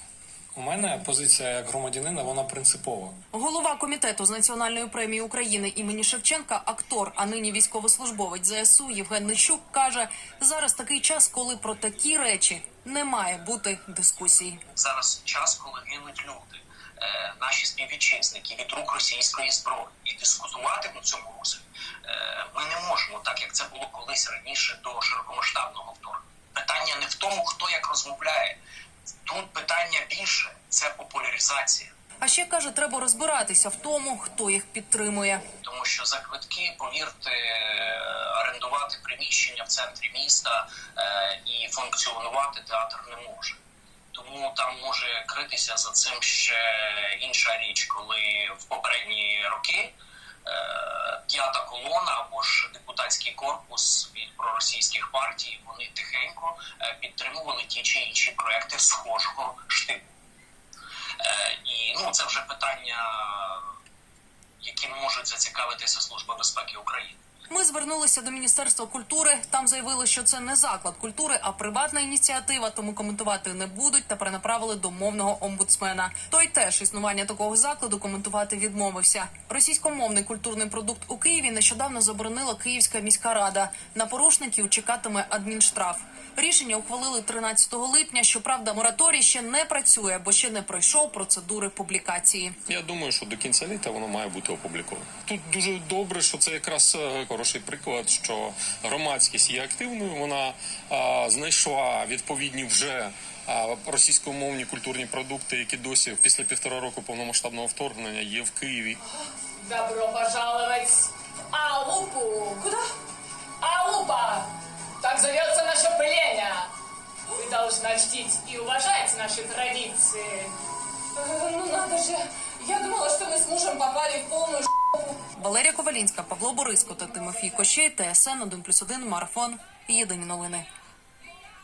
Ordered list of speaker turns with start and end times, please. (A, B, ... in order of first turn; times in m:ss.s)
0:00.5-0:03.2 A
0:03.3-0:14.6 B
0:14.8-0:28.6 C
0:29.2-0:31.9 C
0:32.2-0:35.4 B
0:35.6-0:43.6 C
0:44.1-0:49.9 C
0:50.4-1:00.0 C
1:01.2-1:03.6 C
1:04.6-1:07.2 C
1:07.5-1:32.5 B
1:32.6-1:49.0 D
1:49.6-1:52.8 E
1:53.6-1:56.7 E
1:57.3-2:00.5 E
2:01.1-2:05.2 F
2:05.4-2:10.7 B